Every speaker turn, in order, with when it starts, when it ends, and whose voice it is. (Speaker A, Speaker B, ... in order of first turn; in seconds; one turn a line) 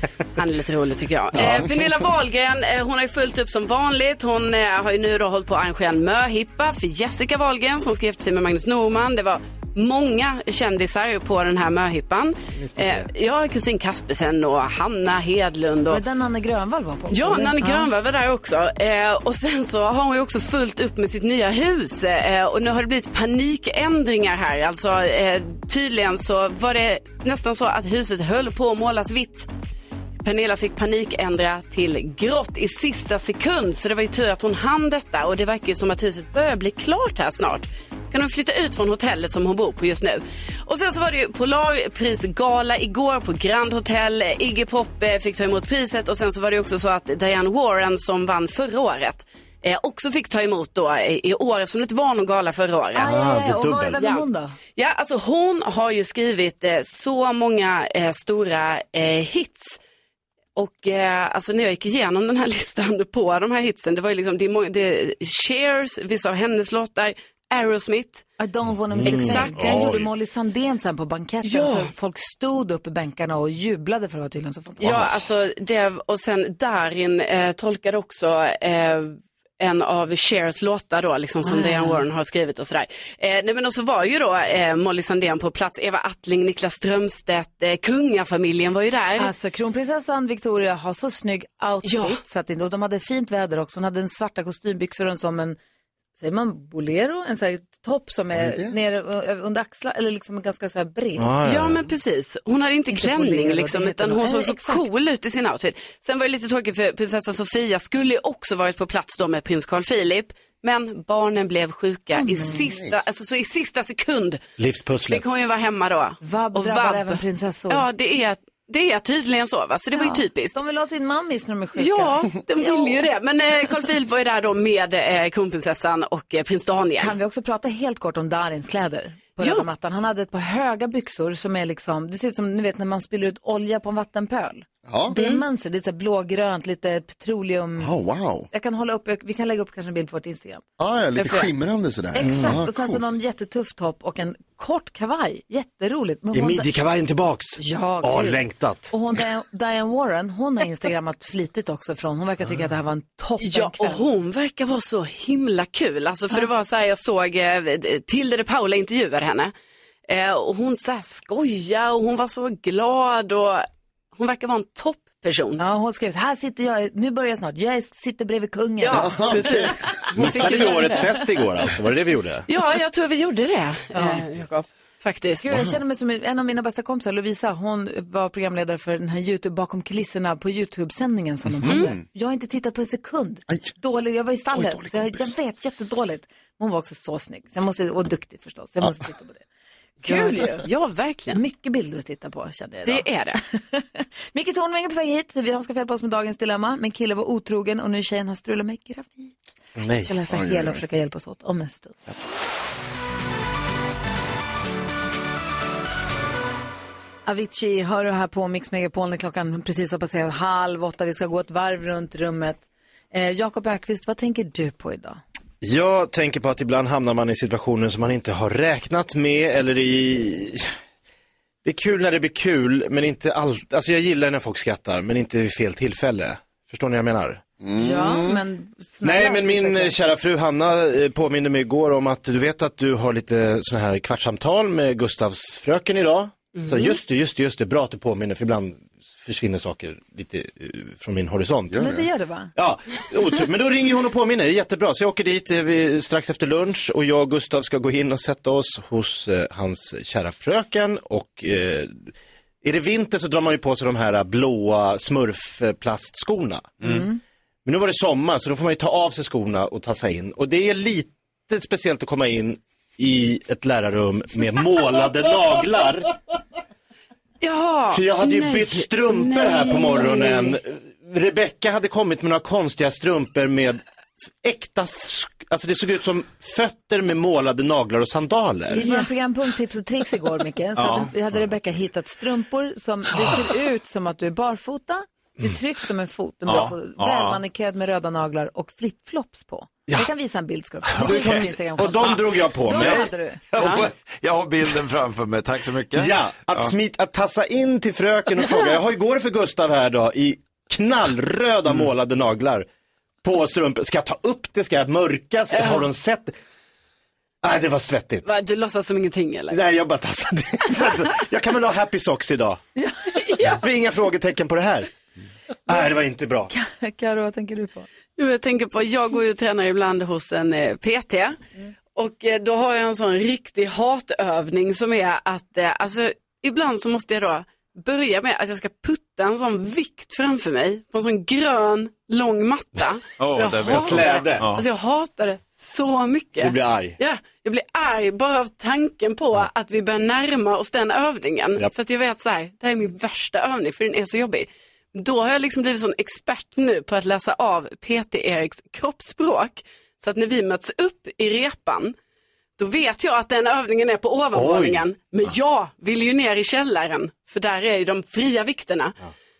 Speaker A: 0.3-16.0
Speaker B: 15.9-17.9
Speaker A: 17.1-29.5
Speaker A: 30.2-53.1
Speaker B: 52.9-54.5
Speaker C: 53.0-54.0
Speaker A: 54.0-59.8
Speaker A: 60.5-68.3
Speaker B: 68.4-75.0
Speaker C: 68.9-70.1
Speaker A: 69.1-69.9
Speaker A: 71.4-71.9
Speaker A: 74.8-89.3
Speaker C: 74.8-75.1
Speaker B: 81.4-82.0
Speaker B: 89.2-95.6
Speaker A: 91.8-92.2
Speaker B: 96.2-101.3
Speaker D: 98.3-98.7
Speaker C: 101.2-101.9
Speaker A: 101.4-114.4
Speaker B: 102.9-104.9
Speaker B: 112.1-112.7
Speaker D: 112.7-113.0
Speaker C: 114.6-115.3
Speaker A: 115.1-120.6
Speaker B: 116.2-117.9
Speaker B: 119.9-123.0
Speaker A: 121.7-127.2
Speaker B: 127.0-137.9
Speaker A: 129.4-129.7
Speaker D: 134.8-135.2
Speaker A: 135.1-135.4
Speaker D: 137.8-138.5
Speaker B: 138.5-140.6
Speaker D: 140.8-143.1
Speaker B: 141.2-141.4
Speaker B: 142.1-146.7
Speaker C: 142.2-142.6
Speaker C: 146.3-148.9
Speaker B: 147.6-154.1
Speaker A: 153.4-159.5
Speaker A: 160.1-165.6
Speaker B: 165.6-171.0
Speaker A: 168.8-171.1
Speaker D: 168.9-170.7
Speaker C: 170.1-172.4
Speaker A: 172.5-175.6
Speaker B: 173.9-174.2
Speaker B: 175.4-189.4
Speaker D: 181.6-182.0
Speaker A: 181.7-181.9
Speaker D: 184.5-185.3
Speaker B: 190.0-190.6
Speaker A: 190.0-191.4
Speaker B: 191.3-199.3
Speaker A: 192.8-193.4
Speaker C: 199.8-200.1
Speaker B: 199.9-202.0
Speaker D: 200.3-200.8
Speaker B: 207.2-215.2
Speaker C: 215.6-220.7
Speaker C: 221.6-227.4
Speaker D: 227.6-228.4
Speaker B: 227.8-229.9
Speaker C: 229.0-241.9
Speaker A: 236.5-237.0
Speaker D: 241.7-242.1
Speaker B: 241.8-242.5
Speaker C: 242.6-256.9
Speaker E: 256.8-257.1
Speaker B: 256.9-257.1
Speaker C: 257.6-266.1
Speaker A: 267.4-270.6
Speaker C: 267.9-273.8
Speaker C: 274.4-278.8
Speaker B: 278.7-293.8
Speaker E: 280.8-281.1
Speaker E: 286.4-287.4
Speaker E: 291.0-291.4
Speaker C: 291.0-293.9
Speaker A: 293.6-293.9
Speaker E: 293.8-296.7
Speaker C: 295.9-302.6
Speaker C: 303.2-306.3
Speaker A: 305.5-305.9
Speaker C: 307.4-308.3
Speaker A: 308.2-309.6
Speaker C: 309.5-312.6
Speaker B: 312.9-313.6
Speaker C: 313.4-314.9
Speaker C: 315.7-316.5
Speaker B: 316.5-317.9
Speaker A: 318.1-321.4
Speaker A: 321.9-351.9
Speaker E: 333.2-334.6
Speaker C: 333.6-334.5
Speaker C: 336.4-336.9
Speaker A: 352.6-359.0
Speaker C: 354.3-354.8